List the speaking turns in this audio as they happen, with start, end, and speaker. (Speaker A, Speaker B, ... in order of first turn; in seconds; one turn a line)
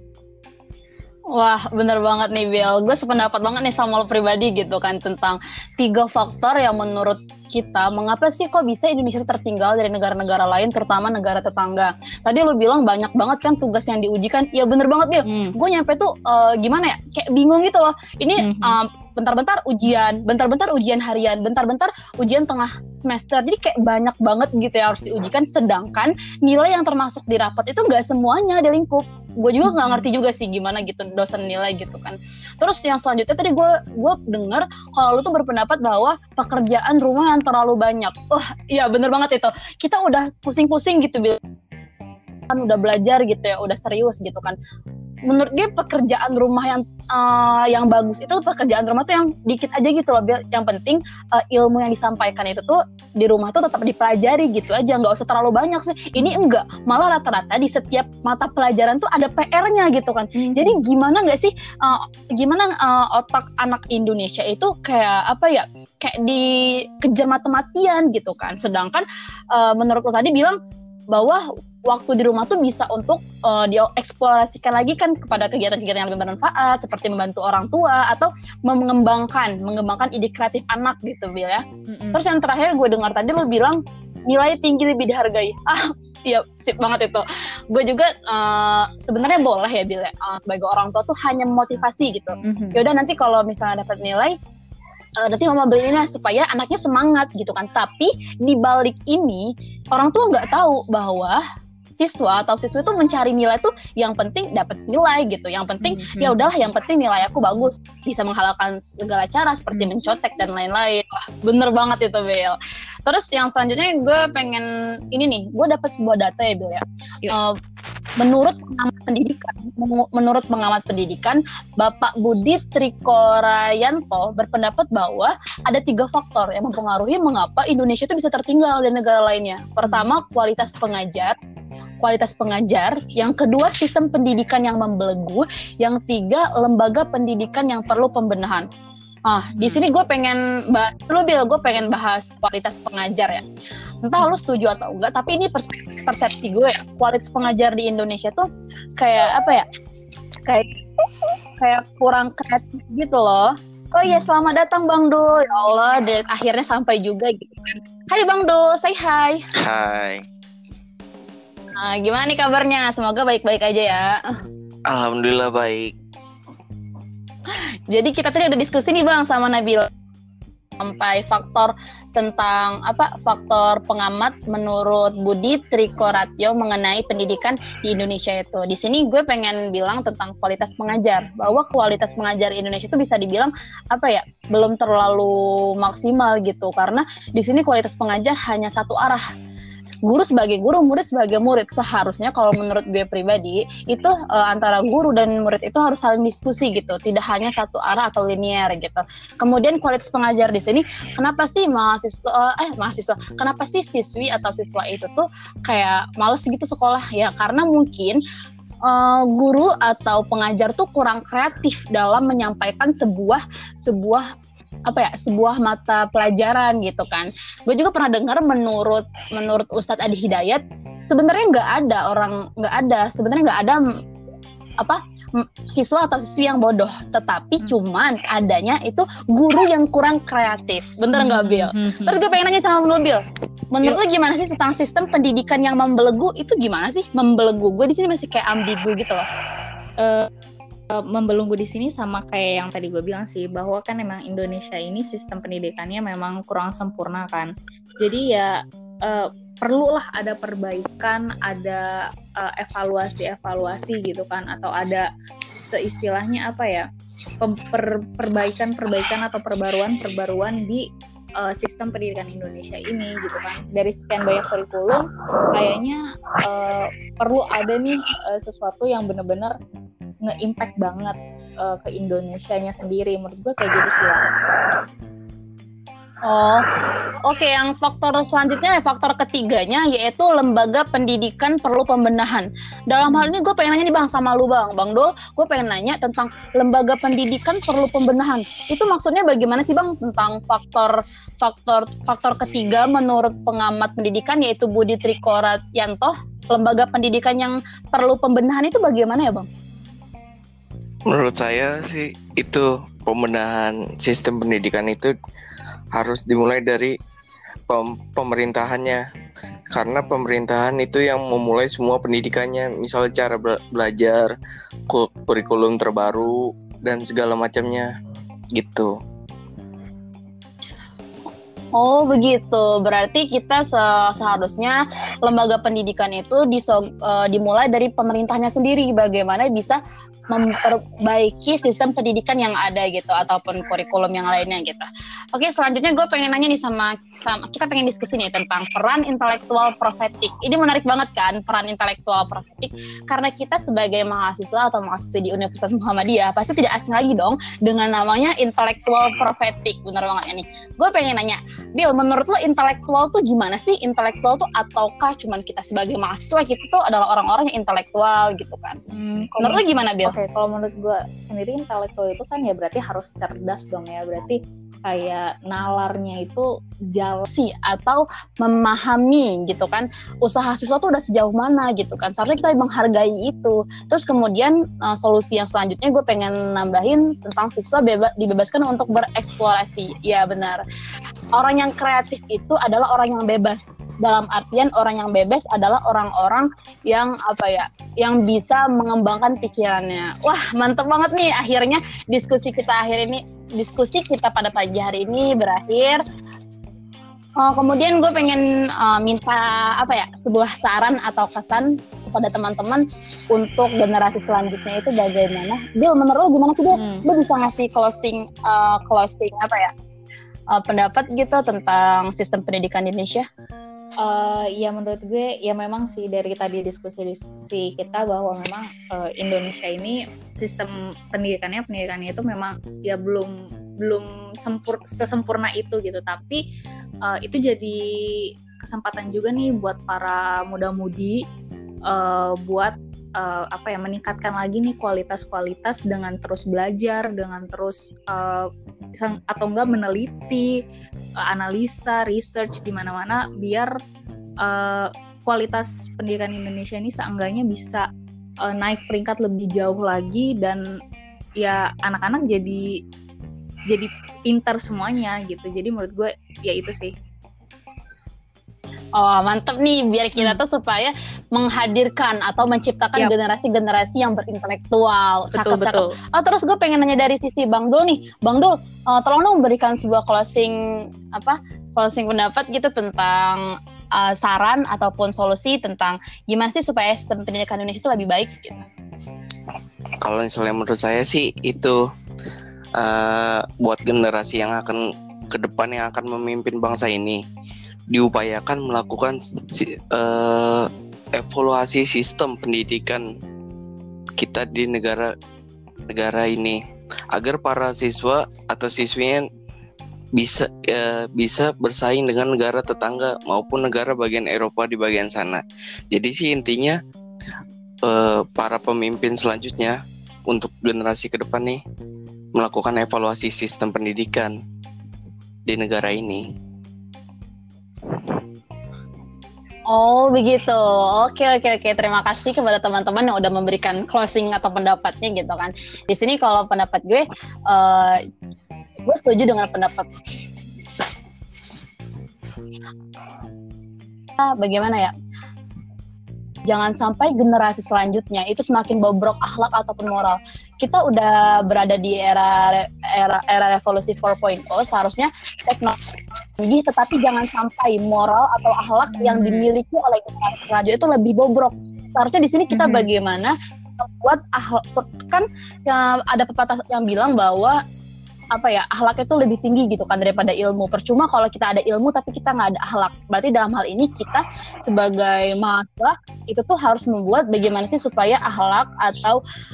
Speaker A: 1.3-41.4
Speaker B: 15.2-15.5
Speaker B: 18.4-18.8
Speaker B: 29.6-30.1
Speaker A: 42.5-44.5
Speaker A: 45.3-70.6
Speaker B: 56.2-56.4
Speaker B: 60.4-60.8
Speaker A: 71.1-81.6
Speaker B: 81.9-82.2
Speaker A: 82.1-94.3
Speaker B: 92.4-92.8
Speaker A: 95.2-117.5
Speaker B: 105.8-106.5
Speaker A: 118.2-131.3
Speaker B: 129.8-130.1
Speaker A: 132.0-138.7
Speaker A: 139.3-143.4
Speaker B: 139.5-139.8
Speaker A: 144.0-148.4
Speaker A: 149.0-149.7
Speaker A: 150.4-151.0
Speaker A: 151.6-159.4
Speaker C: 159.6-160.2
Speaker A: 161.8-164.2
Speaker C: 164.9-165.9
Speaker A: 167.5-169.9
Speaker A: 170.8-189.2
Speaker A: 190.0-208.2
Speaker A: 208.8-214.2
Speaker A: 214.9-223.8
Speaker A: 224.8-239.2
Speaker B: 231.1-232.2
Speaker B: 240.0-240.3
Speaker B: 240.9-255.1
Speaker B: 255.7-256.9
Speaker B: 257.4-260.8
Speaker B: 261.4-269.5
Speaker B: 270.2-274.3
Speaker A: 276.2-276.6
Speaker A: 277.2-299.5
Speaker B: 283.0-283.3
Speaker C: 301.1-305.1
Speaker C: 305.9-306.9
Speaker C: 307.7-309.0
Speaker C: 309.7-314.4
Speaker C: 314.9-317.9
Speaker C: 318.5-318.9
Speaker A: 321.7-329.8
Speaker A: 330.3-358.8
Speaker B: 358.9-367.2
Speaker A: 359.4-360.1
Speaker A: 367.2-380.6
Speaker A: 381.3-396.0
Speaker A: 397.4-409.7
Speaker B: 406.7-407.0
Speaker A: 410.5-413.2
Speaker B: 414.0-426.4
Speaker B: 427.0-431.2
Speaker B: 431.9-440.5
Speaker B: 441.3-443.7
Speaker B: 444.4-447.9
Speaker B: 448.4-450.6
Speaker B: 451.4-452.6
Speaker B: 453.7-456.9
Speaker A: 458.9-470.6
Speaker B: 465.3-465.9
Speaker A: 471.1-473.4
Speaker A: 473.9-478.6
Speaker C: 480.0-481.8
Speaker C: 482.8-487.2
Speaker C: 487.9-493.1
Speaker C: 494.2-495.1
Speaker C: 495.9-496.6
Speaker C: 497.1-499.3
Speaker C: 500.1-506.8
Speaker C: 507.8-511.6
Speaker C: 512.3-514.4
Speaker C: 515.5-516.3
Speaker A: 519.7-528.0
Speaker A: 528.9-529.9
Speaker A: 534.2-534.9
Speaker A: 536.5-545.8
Speaker A: 546.4-557.6
Speaker B: 548.9-549.5
Speaker B: 552.5-552.9
Speaker A: 558.3-569.2